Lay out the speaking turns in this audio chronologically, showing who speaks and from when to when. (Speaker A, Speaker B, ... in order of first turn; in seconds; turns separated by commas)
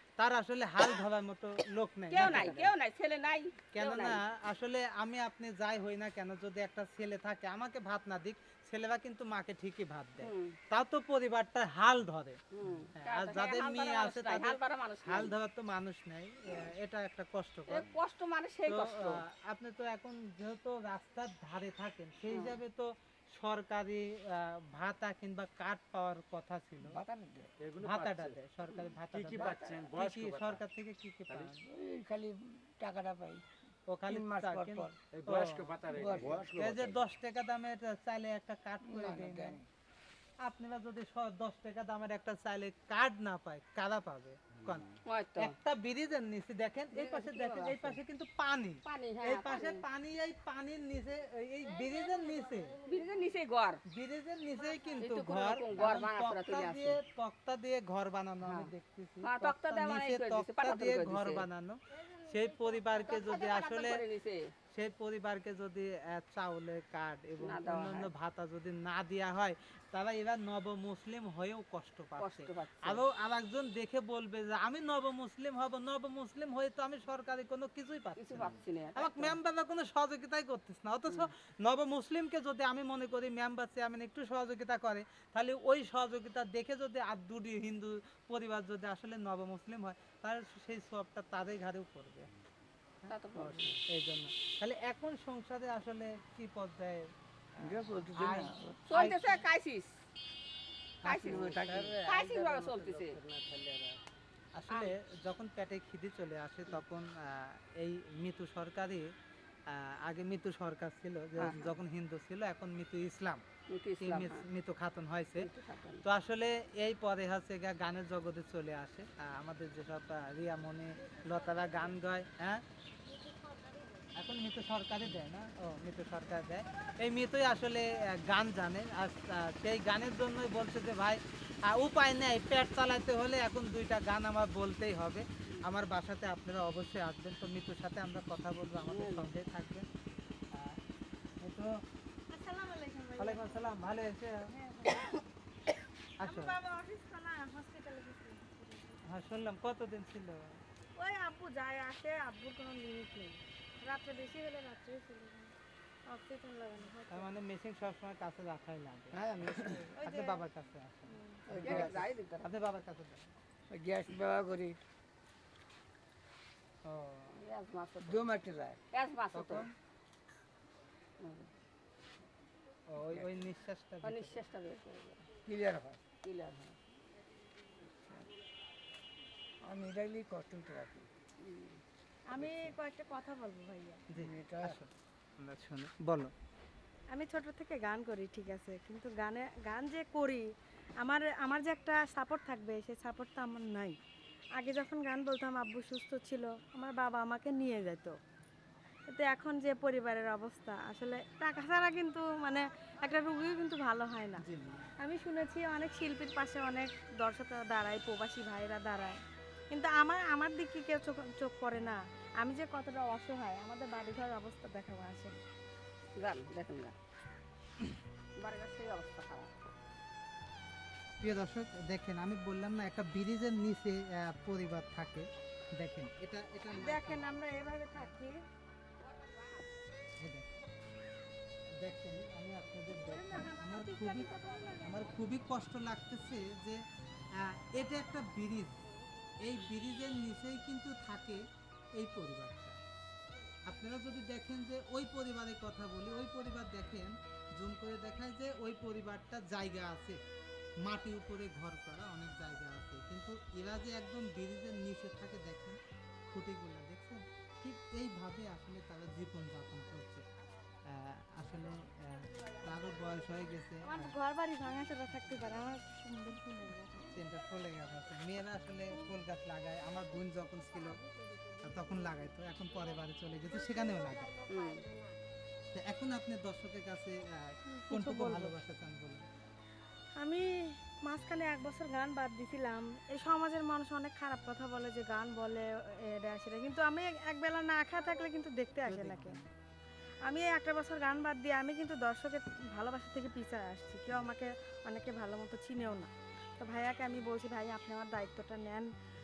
Speaker A: 0.2-2.7, Speaker B: 2.1-4.2, Speaker A: 3.7-12.4, Speaker B: 10.2-10.6, Speaker B: 12.5-15.3, Speaker A: 12.9-17.9, Speaker B: 17.7-19.2, Speaker A: 18.7-26.9, Speaker B: 22.3-22.6, Speaker C: 26.8-27.5, Speaker D: 27.6-28.4, Speaker A: 27.8-31.6, Speaker D: 29.1-30.6, Speaker C: 29.3-29.8, Speaker C: 31.6-33.4, Speaker A: 33.9-35.8, Speaker C: 34.1-35.0, Speaker D: 35.1-37.1, Speaker C: 35.9-36.4, Speaker A: 36.5-39.6, Speaker C: 38.8-39.6, Speaker A: 40.4-52.8, Speaker B: 45.1-45.5, Speaker B: 46.9-48.0, Speaker B: 48.9-49.8, Speaker B: 52.8-53.8, Speaker A: 53.9-64.0, Speaker B: 55.0-57.0, Speaker B: 58.4-58.7, Speaker B: 59.2-61.4, Speaker B: 63.0-64.4, Speaker A: 64.7-92.3, Speaker B: 67.4-68.1, Speaker B: 72.2-73.0, Speaker B: 78.2-79.4, Speaker A: 93.0-97.0, Speaker B: 93.1-93.8, Speaker C: 97.6-98.8, Speaker A: 97.6-99.4, Speaker B: 98.9-99.9, Speaker C: 101.0-102.0, Speaker B: 101.0-101.5, Speaker A: 101.0-102.0, Speaker B: 102.0-103.2, Speaker D: 103.0-103.8, Speaker A: 104.5-109.1, Speaker A: 109.7-113.4, Speaker B: 111.4-111.8, Speaker B: 113.7-114.5, Speaker A: 114.0-115.5, Speaker B: 115.4-116.0, Speaker A: 116.0-122.6, Speaker A: 124.2-139.9, Speaker B: 138.8-139.3, Speaker A: 141.4-141.7, Speaker E: 142.3-143.8, Speaker A: 143.2-144.5, Speaker E: 144.6-145.2, Speaker A: 146.2-146.5, Speaker E: 146.2-149.0, Speaker A: 149.1-150.4, Speaker E: 150.9-155.5, Speaker E: 156.1-157.3, Speaker A: 157.1-159.2, Speaker C: 159.1-159.9, Speaker E: 159.7-160.4, Speaker A: 160.0-163.2, Speaker E: 161.1-161.4, Speaker C: 161.5-162.0, Speaker B: 161.5-162.5, Speaker C: 163.7-164.8, Speaker A: 166.8-167.4, Speaker B: 167.3-168.2, Speaker C: 168.0-168.8, Speaker B: 168.9-169.7, Speaker A: 169.3-169.7, Speaker B: 171.2-171.5, Speaker A: 172.9-174.4, Speaker B: 174.0-175.2, Speaker C: 175.4-176.0, Speaker B: 176.2-176.7, Speaker C: 179.6-181.1, Speaker B: 181.4-181.8, Speaker E: 182.3-184.0, Speaker A: 184.1-186.3, Speaker C: 184.2-184.8, Speaker E: 187.1-190.5, Speaker E: 191.0-194.0, Speaker E: 194.6-198.2, Speaker E: 199.1-204.4, Speaker A: 204.4-204.9, Speaker E: 205.0-209.2, Speaker E: 209.7-215.4, Speaker B: 216.2-216.9, Speaker B: 218.4-219.5, Speaker A: 221.2-227.3, Speaker E: 226.7-228.3, Speaker B: 229.0-229.6, Speaker A: 230.2-230.5, Speaker A: 231.8-234.3, Speaker E: 233.0-235.0, Speaker A: 234.8-236.8, Speaker A: 237.4-238.7, Speaker A: 239.4-241.4, Speaker A: 242.0-242.8, Speaker A: 243.7-250.2, Speaker A: 250.8-260.2, Speaker A: 260.9-264.1, Speaker E: 263.9-267.1, Speaker A: 265.1-265.5, Speaker A: 267.1-271.0, Speaker A: 271.6-274.4, Speaker B: 274.5-274.8, Speaker A: 275.7-279.2, Speaker E: 277.7-278.5, Speaker E: 280.2-280.4, Speaker E: 281.0-289.4, Speaker A: 288.8-289.4, Speaker E: 290.2-298.9